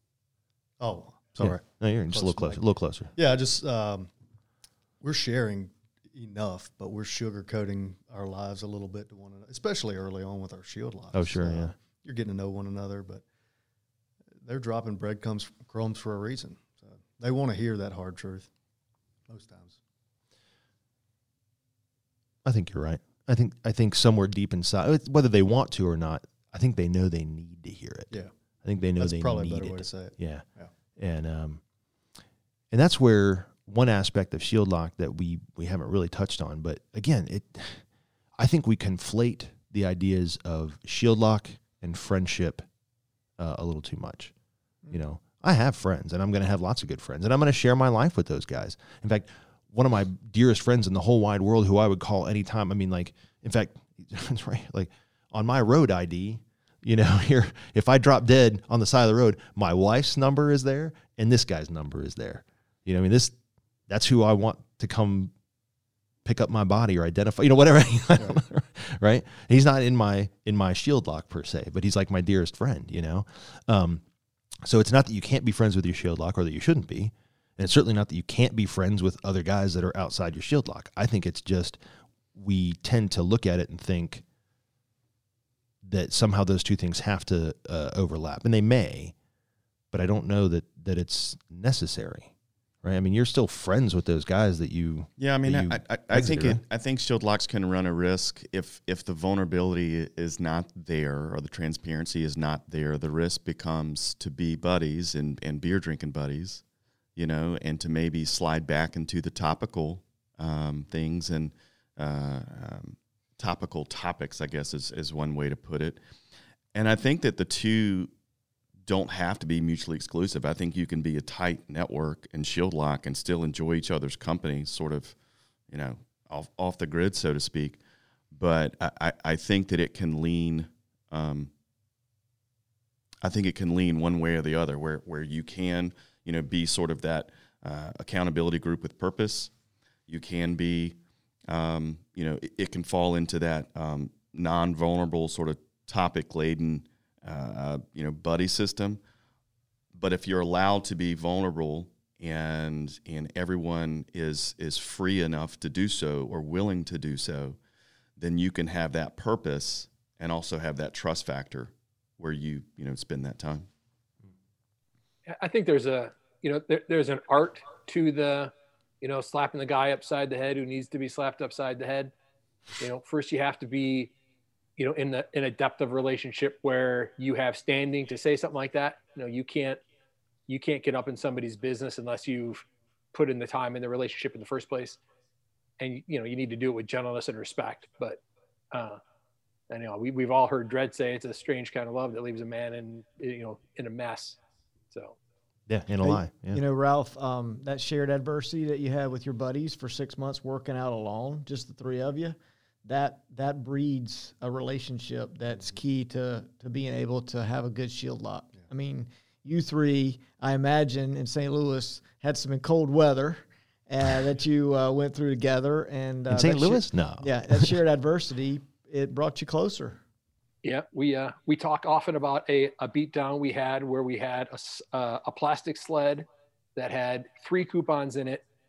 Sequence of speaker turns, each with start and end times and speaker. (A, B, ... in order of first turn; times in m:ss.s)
0:00.8-0:02.6 A
0:01.4-0:03.1 B
0:03.1-0:04.1 A
0:05.0-0:13.2 A
0:11.1-0:11.8 B
0:14.4-0:18.5 A
0:19.3-0:19.8 A
0:22.4-0:30.4 B
0:29.0-0:30.7 A
0:31.0-0:31.6 B
0:32.7-0:37.8 B
0:38.4-0:42.6 B
0:43.4-0:44.3 B
0:44.9-1:03.4 B
1:03.9-1:05.3 B
1:06.2-1:14.0 B
1:14.6-1:21.8 B
1:22.3-1:24.2 B
1:25.8-1:29.1 B
1:29.9-1:32.3 B
1:32.8-1:36.6 B
1:35.2-1:46.6 C
1:47.2-1:56.0 C
1:56.7-1:58.1 C
1:58.8-2:05.1 C
2:05.7-2:07.8 C
2:08.3-2:11.5 C
2:13.2-2:19.5 C
2:20.1-2:21.0 C
2:21.5-2:29.0 C
2:29.9-2:37.6 C
2:38.2-2:43.7 C
2:45.4-2:52.1 D
2:52.8-2:54.1 D
2:54.8-2:59.8 D
3:00.5-3:05.0 D
3:05.8-3:08.2 D
3:08.7-3:09.0 D
3:09.7-3:14.4 D
3:14.9-3:15.2 D
3:15.7-3:16.6 B
3:16.0-3:40.0 E
3:36.3-3:37.8 B
3:40.6-3:48.4 D